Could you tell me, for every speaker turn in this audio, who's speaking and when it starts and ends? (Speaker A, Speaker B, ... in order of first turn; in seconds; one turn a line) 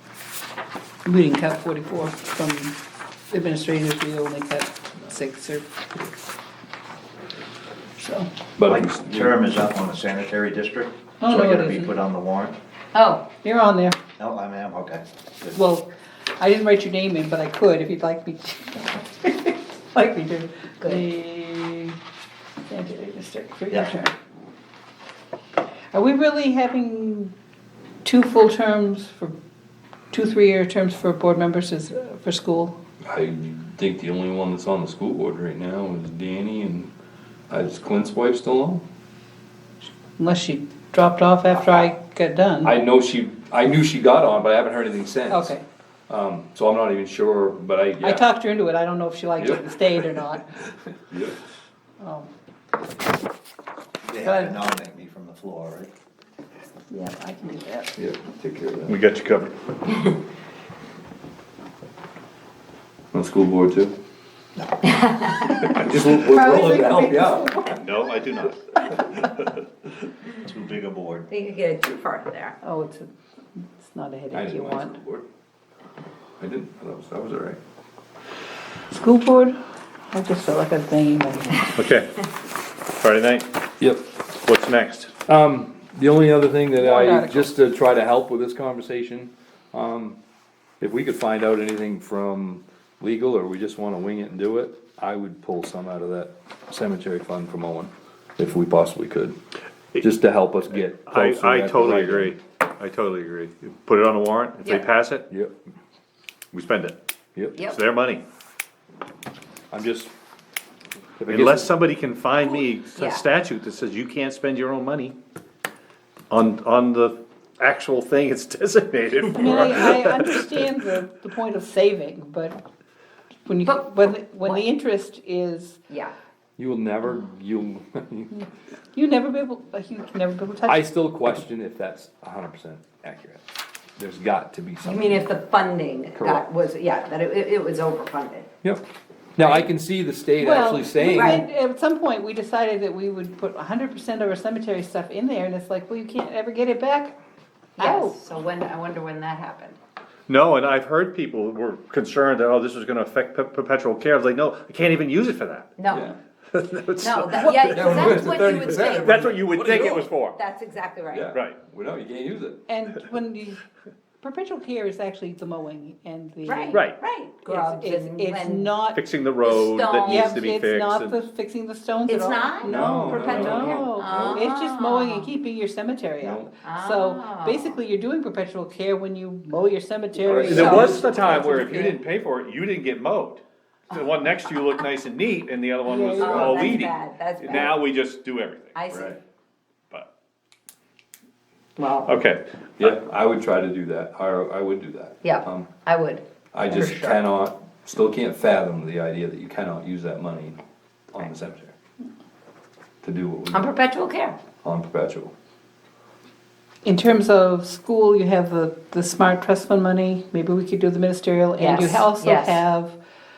Speaker A: 1.0-2.8
Speaker A: 3.3-5.7
Speaker A: 8.0-8.3
Speaker B: 8.6-9.4
Speaker C: 8.6-12.6
Speaker A: 11.2-11.9
Speaker D: 12.9-13.3
Speaker A: 13.4-14.0
Speaker C: 14.2-15.6
Speaker A: 15.5-21.9
Speaker A: 22.7-24.1
Speaker A: 25.9-27.3
Speaker A: 28.0-29.4
Speaker A: 30.1-32.8
Speaker B: 33.1-36.9
Speaker B: 37.5-38.8
Speaker A: 40.2-42.8
Speaker B: 42.6-45.5
Speaker A: 45.3-45.6
Speaker B: 46.1-48.2
Speaker A: 48.0-50.4
Speaker B: 49.4-50.0
Speaker B: 51.1-51.4
Speaker A: 52.0-52.3
Speaker C: 54.0-55.9
Speaker A: 54.2-54.6
Speaker A: 56.9-58.0
Speaker B: 58.0-59.0
Speaker E: 58.9-60.1
Speaker B: 63.1-63.9
Speaker D: 64.8-65.8
Speaker B: 65.4-67.7
Speaker D: 66.3-67.8
Speaker A: 66.5-66.9
Speaker E: 67.7-69.5
Speaker C: 70.4-71.3
Speaker D: 71.3-72.5
Speaker A: 72.6-75.0
Speaker B: 74.3-75.2
Speaker B: 76.4-77.6
Speaker A: 78.9-79.6
Speaker A: 80.1-81.7
Speaker E: 81.7-82.2
Speaker E: 83.0-83.5
Speaker B: 83.8-84.1
Speaker E: 84.4-85.1
Speaker B: 85.2-90.2
Speaker A: 86.8-87.5
Speaker B: 90.8-99.3
Speaker B: 99.9-102.3
Speaker E: 101.0-105.2
Speaker B: 105.3-105.5
Speaker E: 106.5-107.0
Speaker E: 107.6-108.2
Speaker B: 109.7-110.1
Speaker B: 111.2-111.7
Speaker E: 111.3-115.1
Speaker D: 112.9-113.2
Speaker E: 116.3-120.7
Speaker A: 119.3-122.6
Speaker A: 123.5-125.8
Speaker D: 125.9-126.1
Speaker B: 126.6-128.3
Speaker A: 128.9-130.8
Speaker B: 130.7-133.4
Speaker B: 134.0-135.3
Speaker D: 134.8-138.5
Speaker B: 136.2-136.4
Speaker B: 139.3-141.4
Speaker A: 140.4-147.2
Speaker D: 141.0-141.4
Speaker A: 147.8-148.1
Speaker D: 147.8-149.8
Speaker E: 150.3-155.7
Speaker D: 155.8-156.1
Speaker B: 155.9-156.1
Speaker E: 156.5-160.4
Speaker D: 157.0-159.1
Speaker B: 157.7-160.1
Speaker D: 159.8-161.3
Speaker B: 161.1-162.6
Speaker A: 162.7-163.6
Speaker A: 164.2-166.9
Speaker D: 166.4-168.8
Speaker E: 166.7-167.0
Speaker A: 167.4-169.0
Speaker E: 168.9-171.2
Speaker D: 169.4-170.2
Speaker A: 170.0-181.1
Speaker D: 172.1-175.3
Speaker B: 172.6-174.4
Speaker B: 176.2-176.5
Speaker D: 176.6-177.7
Speaker B: 180.1-182.0
Speaker E: 180.4-188.8
Speaker D: 180.5-181.0
Speaker A: 185.9-186.8
Speaker D: 186.1-187.8
Speaker D: 188.7-189.1
Speaker B: 188.9-189.2
Speaker D: 191.8-192.2
Speaker E: 192.1-192.9
Speaker B: 192.8-195.7
Speaker D: 195.2-197.2
Speaker B: 196.5-200.6
Speaker B: 201.1-201.7
Speaker B: 203.0-203.7
Speaker D: 203.5-204.4
Speaker B: 204.6-205.3
Speaker A: 206.8-213.0
Speaker D: 211.6-212.6